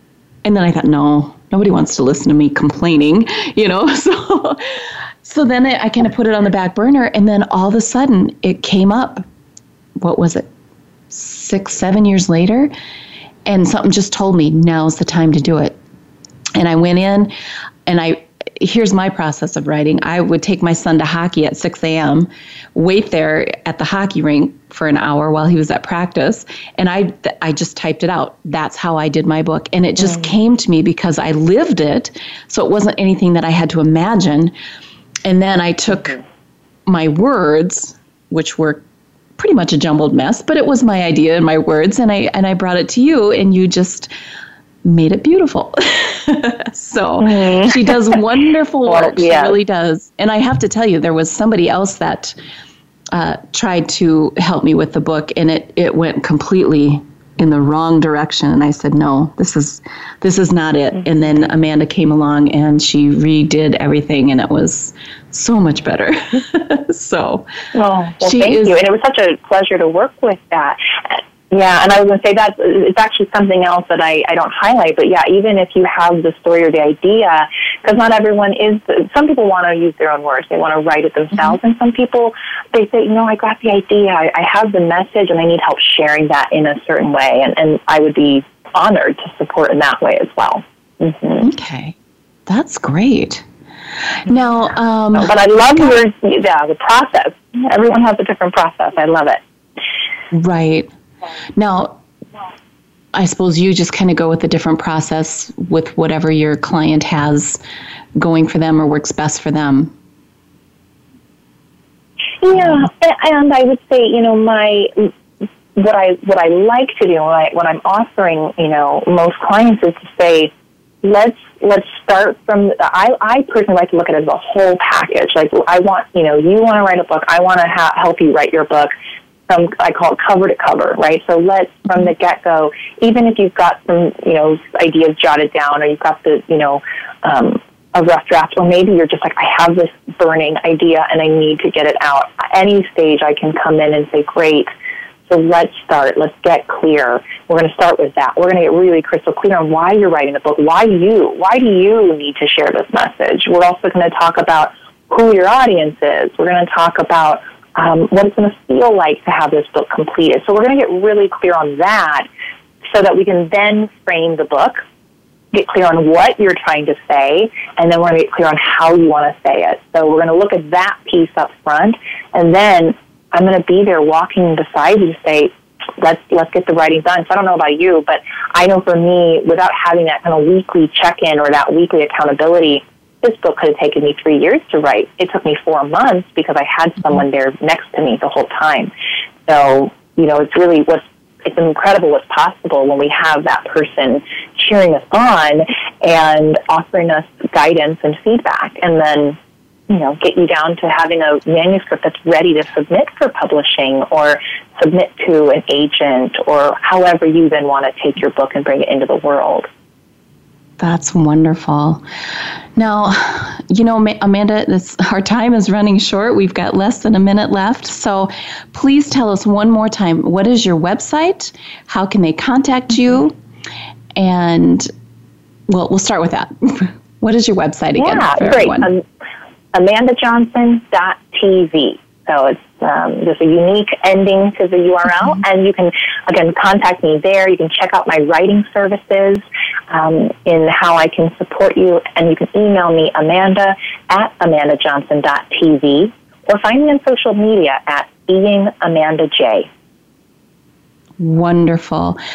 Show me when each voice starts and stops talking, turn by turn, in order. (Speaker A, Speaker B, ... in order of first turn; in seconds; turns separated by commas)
Speaker A: 0.4-9.2, Speaker A: 10.0-10.5, Speaker A: 11.1-12.7, Speaker A: 13.5-15.8, Speaker A: 16.6-17.3, Speaker A: 17.9-34.5, Speaker A: 35.2-36.2, Speaker A: 36.9-38.8, Speaker A: 39.4-44.1, Speaker A: 44.8-52.4, Speaker B: 47.2-47.9, Speaker B: 48.9-49.6, Speaker A: 53.1-67.5, Speaker B: 67.7-91.5, Speaker A: 68.2-68.8, Speaker A: 91.4-92.0, Speaker A: 92.5-93.5, Speaker A: 94.0-95.4, Speaker B: 95.1-99.4, Speaker A: 100.3-100.9, Speaker A: 101.6-102.0, Speaker A: 103.1-107.6, Speaker A: 108.2-109.9, Speaker B: 112.4-115.1, Speaker B: 115.8-120.5, Speaker B: 121.0-128.9, Speaker B: 129.5-144.7, Speaker B: 145.3-162.3, Speaker B: 162.9-164.8, Speaker B: 165.5-188.9, Speaker B: 189.5-199.4, Speaker B: 199.9-209.7, Speaker A: 210.8-212.0, Speaker A: 212.8-223.4, Speaker A: 224.2-224.9, Speaker A: 225.7-228.9, Speaker B: 228.0-229.0, Speaker B: 229.7-249.7, Speaker A: 251.2-252.2